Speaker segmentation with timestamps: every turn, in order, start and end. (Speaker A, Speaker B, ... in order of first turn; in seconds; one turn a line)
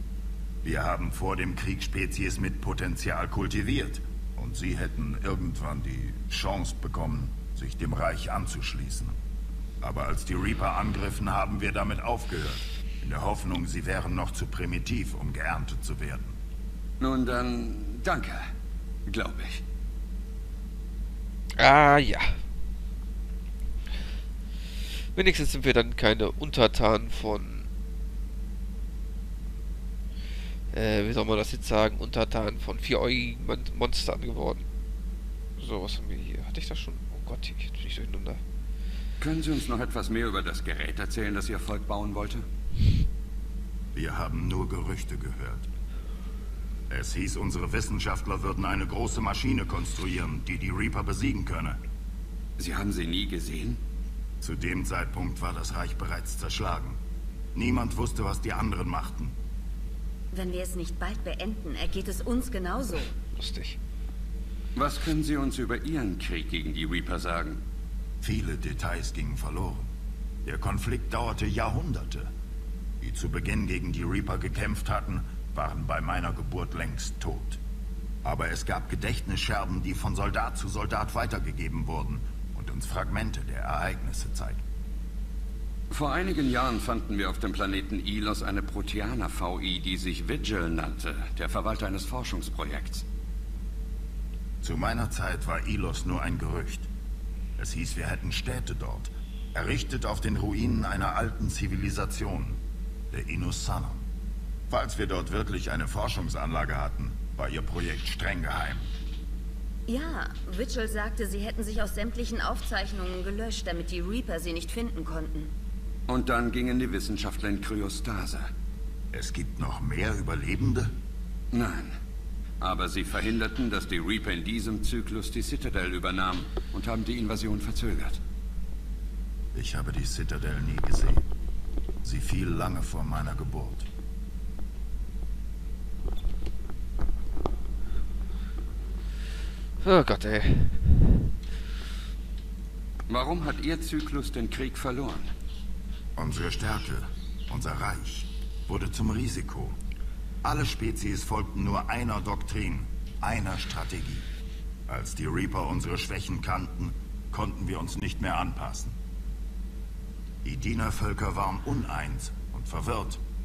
Speaker A: 0.6-9.2
Speaker A: 9.8-16.4
Speaker B: 17.0-18.5
Speaker B: 19.1-19.6
Speaker C: 21.6-22.4
Speaker C: 25.1-27.7
Speaker C: 30.7-34.7
Speaker C: 35.6-38.4
Speaker B: 39.2-42.5
Speaker A: 43.9-45.7
Speaker A: 46.9-51.8
Speaker B: 52.6-53.8
Speaker A: 54.4-57.0
Speaker A: 57.5-59.4
Speaker D: 60.3-63.1
Speaker C: 63.3-63.8
Speaker B: 64.8-67.6
Speaker A: 68.2-69.9
Speaker A: 70.5-72.3
Speaker A: 73.0-77.6
Speaker A: 78.2-84.6
Speaker B: 85.9-93.0
Speaker A: 94.6-96.9
Speaker A: 97.6-104.1
Speaker A: 104.7-108.9
Speaker D: 109.9-115.5
Speaker B: 116.1-118.5
Speaker A: 119.1-121.0
Speaker B: 121.5-122.0
Speaker B: 122.6-128.2
Speaker A: 129.5-131.3
Speaker A: 132.0-133.9
Speaker C: 139.8-141.2
Speaker B: 143.1-145.3
Speaker A: 146.2-149.8
Speaker A: 150.4-154.3
Speaker A: 154.9-159.0
Speaker A: 160.4-163.2